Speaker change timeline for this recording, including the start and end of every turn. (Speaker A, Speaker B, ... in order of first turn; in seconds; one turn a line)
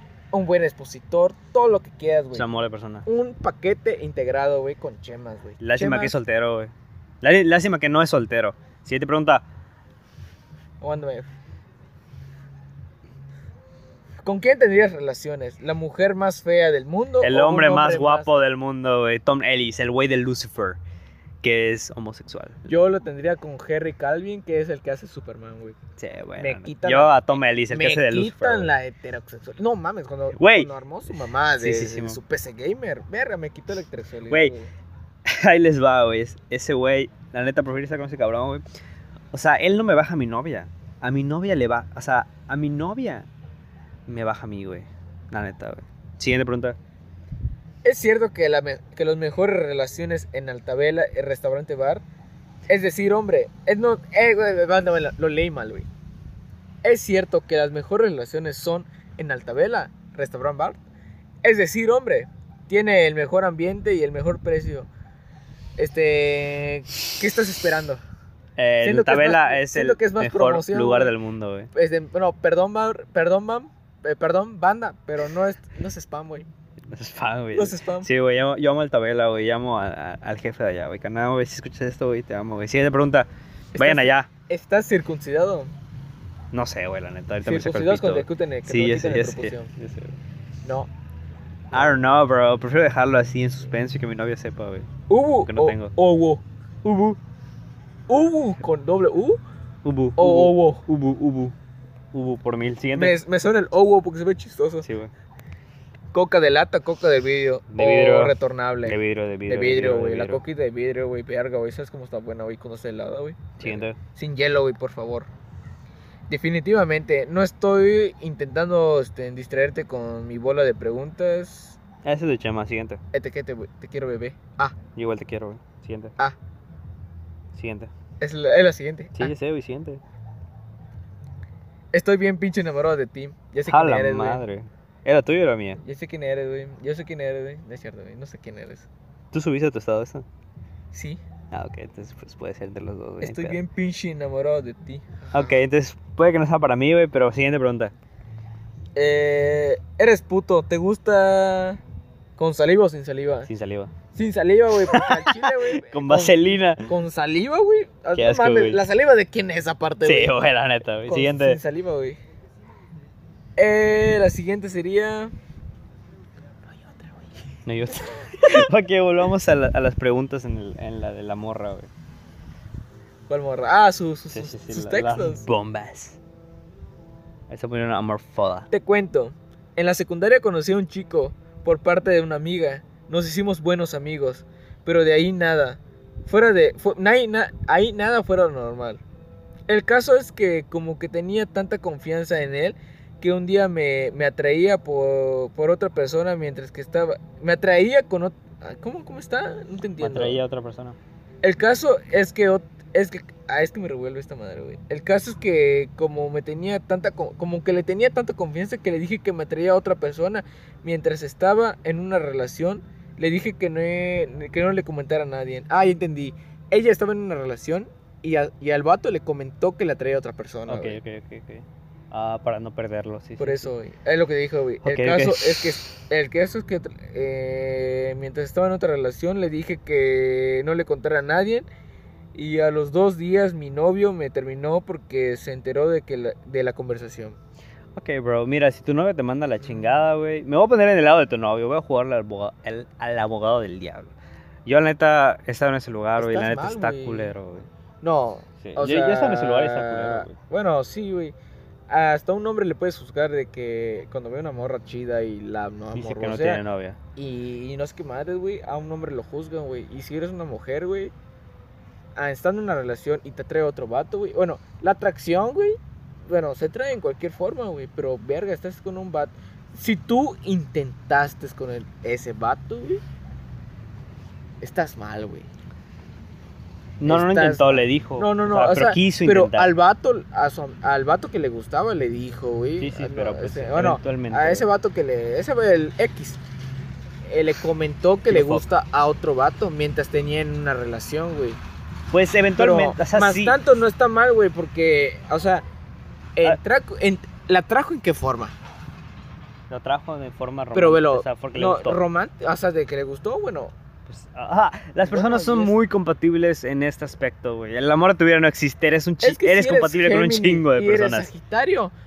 Speaker A: 0.3-2.5
Speaker B: 2.3-3.1
Speaker A: 3.0-6.1
Speaker B: 5.6-9.4
Speaker A: 10.8-11.3
Speaker A: 14.2-18.3
Speaker B: 17.2-20.8
Speaker B: 21.4-22.7
Speaker A: 22.7-25.8
Speaker B: 26.0-28.7
Speaker A: 26.4-34.7
Speaker B: 30.3-30.7
Speaker B: 31.6-32.2
Speaker B: 35.2-38.6
Speaker B: 39.3-43.3
Speaker B: 44.1-46.8
Speaker A: 47.8-52.0
Speaker A: 52.7-55.9
Speaker A: 56.8-60.8
Speaker A: 61.4-64.9
Speaker A: 65.8-68.0
Speaker B: 68.6-71.7
Speaker A: 68.8-71.1
Speaker A: 71.7-76.5
Speaker B: 76.9-84.3
Speaker A: 77.5-78.1
Speaker A: 83.7-85.7
Speaker B: 86.5-90.2
Speaker A: 87.4-89.7
Speaker A: 90.6-90.9
Speaker B: 91.7-94.9
Speaker A: 91.7-92.1
Speaker A: 95.1-96.4
Speaker B: 95.5-95.9
Speaker B: 96.8-97.2
Speaker A: 98.1-99.4
Speaker B: 99.8-101.5
Speaker A: 100.2-100.8
Speaker B: 102.1-103.2
Speaker A: 102.9-104.9
Speaker B: 104.8-105.1
Speaker A: 106.1-115.3
Speaker B: 107.7-108.3
Speaker B: 108.8-110.4
Speaker B: 113.6-114.0
Speaker A: 116.3-121.8
Speaker B: 122.0-123.0
Speaker A: 123.1-124.8
Speaker B: 124.9-126.2
Speaker B: 127.5-127.9
Speaker A: 128.2-129.3
Speaker B: 129.2-130.0
Speaker A: 131.9-134.4
Speaker B: 133.7-135.8
Speaker A: 135.8-138.9
Speaker B: 139.3-140.3
Speaker A: 140.9-141.2
Speaker B: 141.5-143.6
Speaker A: 143.2-145.6
Speaker B: 145.3-147.9
Speaker A: 148.9-151.8
Speaker A: 152.4-153.5
Speaker B: 153.5-153.9
Speaker A: 154.1-160.3
Speaker B: 154.9-156.9
Speaker B: 158.2-158.8
Speaker B: 160.0-161.6
Speaker A: 161.1-162.2
Speaker A: 163.6-165.3
Speaker A: 166.7-167.2
Speaker B: 167.7-171.9
Speaker A: 173.3-175.4
Speaker B: 174.3-176.2
Speaker B: 177.5-178.7
Speaker A: 178.7-189.0
Speaker A: 189.7-200.4
Speaker B: 200.0-201.0
Speaker A: 201.4-221.0
Speaker B: 220.7-223.7
Speaker A: 223.4-231.7
Speaker B: 224.8-225.8
Speaker A: 232.3-237.4
Speaker B: 237.9-244.1
Speaker B: 244.7-247.7
Speaker A: 246.2-247.3
Speaker A: 248.0-251.3
Speaker B: 248.6-250.3
Speaker A: 251.9-256.6
Speaker B: 255.9-257.0
Speaker A: 257.1-261.1
Speaker A: 262.1-273.0
Speaker A: 274.6-275.5
Speaker B: 277.0-279.7
Speaker A: 277.0-286.4
Speaker B: 282.8-284.7
Speaker A: 287.2-291.6
Speaker B: 288.3-288.6
Speaker B: 292.1-293.6
Speaker A: 292.6-295.6
Speaker A: 296.4-298.6
Speaker B: 299.7-302.0
Speaker A: 300.7-303.7
Speaker B: 304.1-311.3
Speaker A: 305.0-305.8
Speaker A: 309.2-311.9